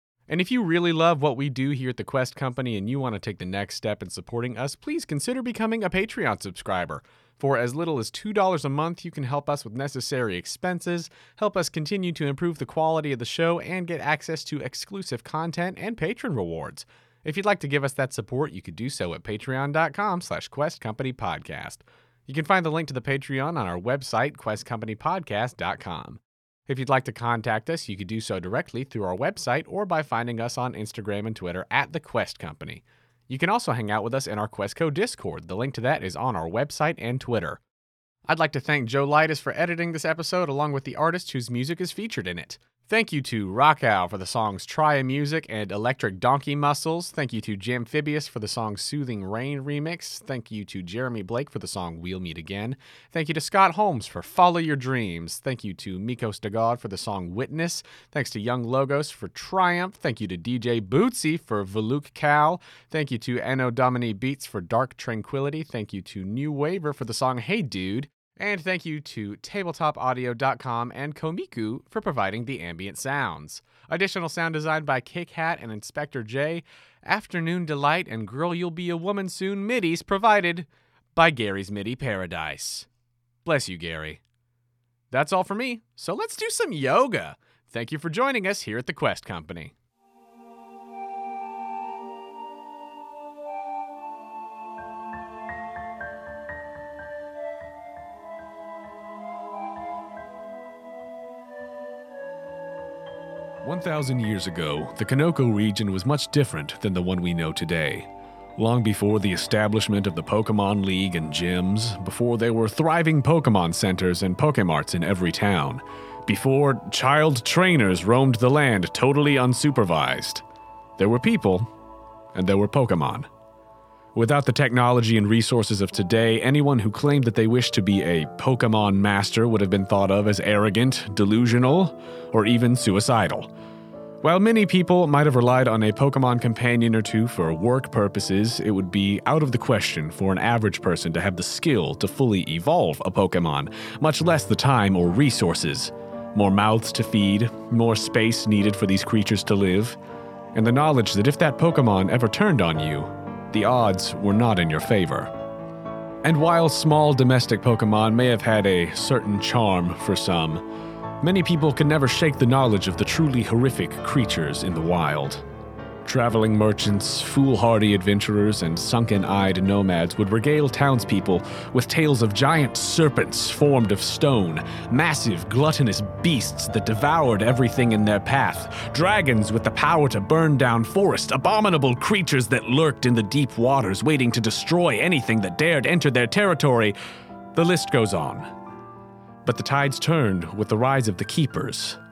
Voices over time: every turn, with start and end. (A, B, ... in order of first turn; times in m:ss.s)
0:00.3-0:37.6 A
0:38.3-1:22.9 A
1:23.4-1:24.2 A
1:25.1-1:29.7 A
1:43.6-2:00.4 A
2:01.0-2:01.7 A
2:02.4-2:03.3 A
2:04.2-2:13.5 A
2:14.2-2:30.0 A
2:30.5-2:35.3 A
2:36.2-2:40.6 A
2:41.2-2:45.4 A
2:46.0-3:07.0 A
3:07.6-3:08.5 A
3:09.4-3:12.0 A